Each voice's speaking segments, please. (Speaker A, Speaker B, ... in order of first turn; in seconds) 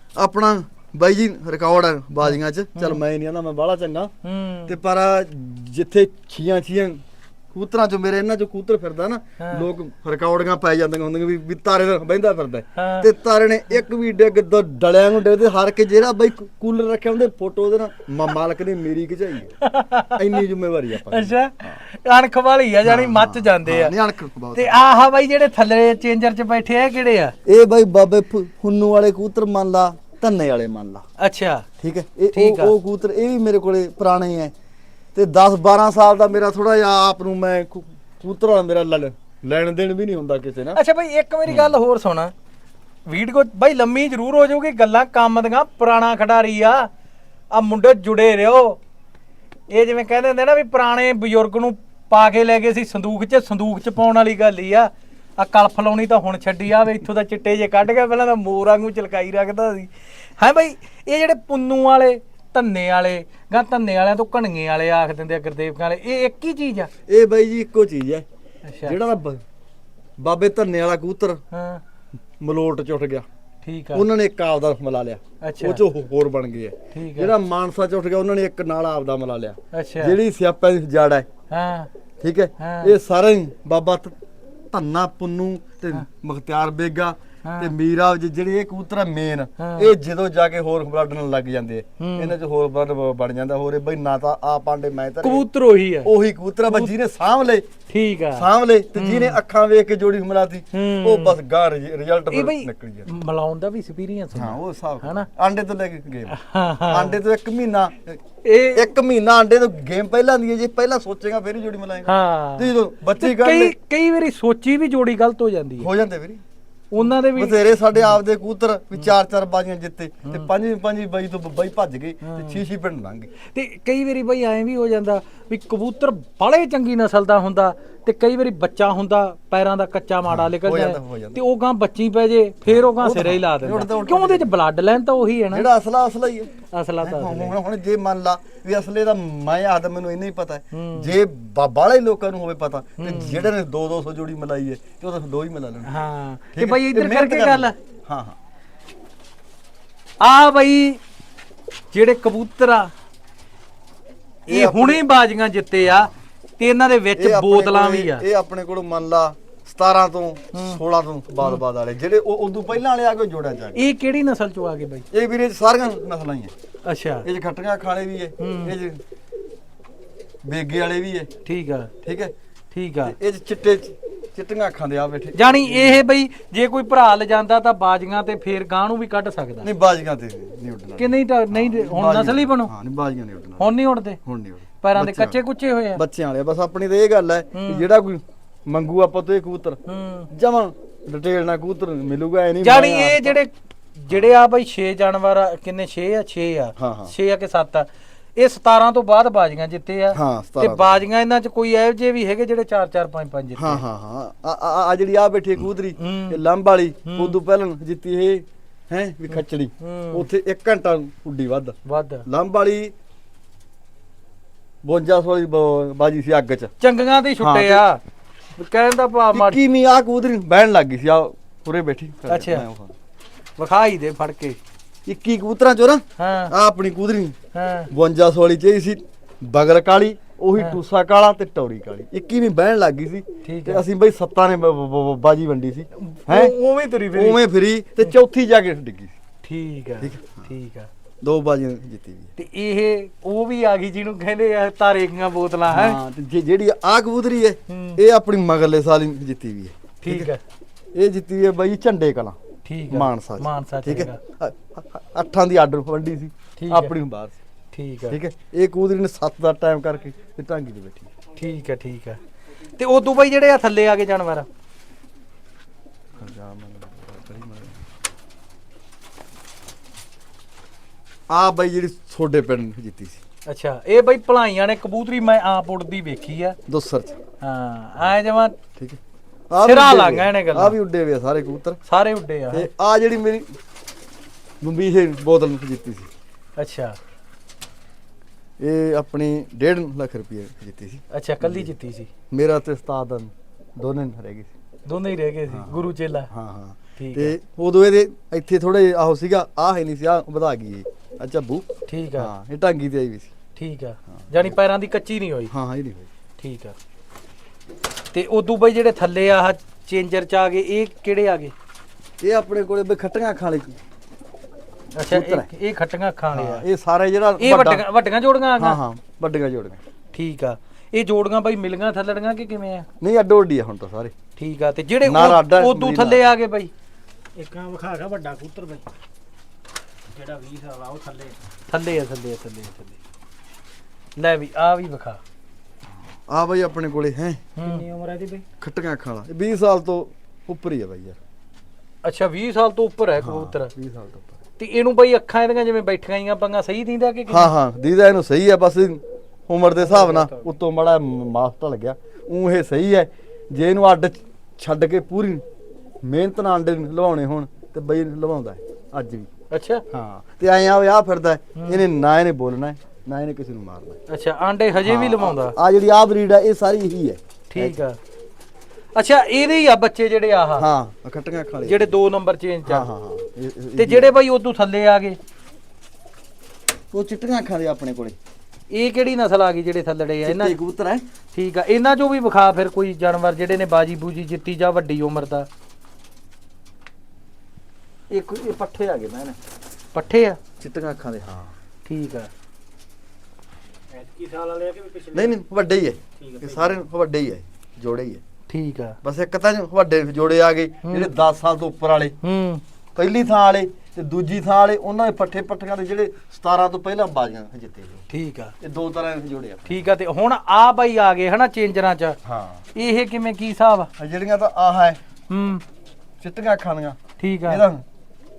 Speaker A: 0.1-4.1, 4.7-7.0, 7.5-19.5, 20.1-21.8, 22.8-24.8, 27.4-31.0, 31.8-34.5, 35.1-40.8, 41.5-41.8, 67.1-68.2, 68.8-69.4, 70.2-71.4, 72.4-73.2, 73.9-81.3, 82.2-84.1, 84.7-95.4, 96.0-97.7, 98.3-103.1, 104.3-106.3, 106.9-108.2, 108.7-113.7, 115.8-116.4, 117.0-123.3, 130.2-131.4, 132.7-134.5, 135.5-145.9, 146.5-148.3, 154.5-155.0, 155.8-156.1, 157.1-163.8, 165.1-166.5, 167.2-169.0, 170.4-171.3, 172.0-172.3, 173.0-176.0, 179.6-183.7, 184.2-185.4, 185.9-189.8, 190.3-193.4, 196.8-197.1, 200.1-201.0, 203.6-211.7, 212.2-212.9, 214.8-216.7, 217.4-217.8, 219.3-222.9, 225.1-227.3, 227.9-236.5, 237.1-239.2, 240.0-240.5, 241.2-242.3, 245.7-250.3, 250.9-252.4, 252.9-257.4, 258.1-261.1, 266.2-267.8, 271.3-273.2, 276.7-277.2, 278.8-281.8, 282.5-283.5, 284.6-286.1, 288.6-291.7, 292.3-294.5, 295.5-303.3, 304.2-304.5, 305.5-306.1, 312.2-313.8, 315.1-315.5, 316.3-317.8, 318.6-319.8, 323.0-324.1, 325.0-326.2, 336.3-337.5, 338.6-341.2, 343.2-344.4, 347.3-355.4, 356.0-359.3, 359.9-364.0, 364.8-367.8, 370.6-371.9, 372.6-374.1, 376.9-378.2, 380.2-381.0, 388.1-389.4, 390.6-391.5, 395.1-398.2, 399.0-402.1, 402.9-408.1, 408.6-409.8, 412.2-412.6, 414.0-415.0, 416.2-417.8
Speaker B: 2.7-3.0, 4.2-4.8, 9.4-9.7, 12.8-13.1, 19.6-20.4, 21.0-23.9, 24.5-27.3, 31.2-31.6, 32.3-32.7, 40.7-42.3, 43.1-46.9, 47.5-48.8, 49.7-66.9, 68.7-69.0, 71.5-71.8, 73.6-74.0, 75.4-75.8, 76.9-77.3, 79.7-80.2, 81.5-81.9, 82.6-82.9, 87.4-87.7, 89.6-89.9, 92.0-92.3, 95.2-96.1, 97.9-99.4, 100.7-101.3, 102.3-105.3, 106.3-107.2, 108.4-108.9, 112.1-115.9, 116.9-118.2, 120.2-120.5, 122.2-122.6, 123.4-135.7, 136.7-137.6, 140.7-141.1, 143.0-143.5, 145.8-147.7, 150.2-151.0, 151.9-152.9, 154.5-158.2, 160.5-160.8, 163.7-165.1, 166.8-167.3, 168.4-168.7, 171.4-171.9, 172.7-173.1, 175.3-179.7, 181.0-182.7, 183.6-184.2, 184.8-186.0, 187.5-187.8, 189.9-190.3, 192.6-203.8, 206.0-206.4, 207.1-207.3, 209.3-210.3, 211.8-212.2, 216.8-218.0, 218.6-219.6, 222.3-222.7, 223.6-224.6, 226.2-226.5, 227.5-227.9, 233.4-233.8, 236.0-237.4, 239.4-240.9, 242.4-246.0, 247.7-248.0, 250.0-250.4, 252.6-254.2, 256.6-256.9, 257.7-258.2, 261.4-262.2, 262.8-264.5, 273.5-276.6, 277.4-278.6, 279.6-280.8, 281.9-282.7, 286.6-287.0, 291.1-292.1, 294.9-296.3, 297.0-297.3, 301.9-302.3, 303.6-305.5, 306.4-306.7, 308.1-311.5, 314.9-316.6, 317.4-318.8, 320.1-322.9, 324.4-326.7, 331.7-333.0, 334.2-335.2, 337.6-337.9, 342.0-343.7, 344.6-347.5, 349.8-350.4, 359.5-359.8, 361.6-361.8, 364.1-365.6, 367.5-368.0, 368.9-370.7, 371.6-372.9, 373.8-375.2, 378.7-380.5, 381.3-385.5, 389.9-390.4, 391.9-392.3, 398.5-399.0, 400.8-401.1, 402.2-402.6, 408.1-408.5, 409.7-412.2, 412.7-413.9, 415.3-415.6, 417.2-417.6
Speaker C: 327.4-328.9, 330.1-331.4, 337.7-338.4, 393.9-395.2, 396.2-396.5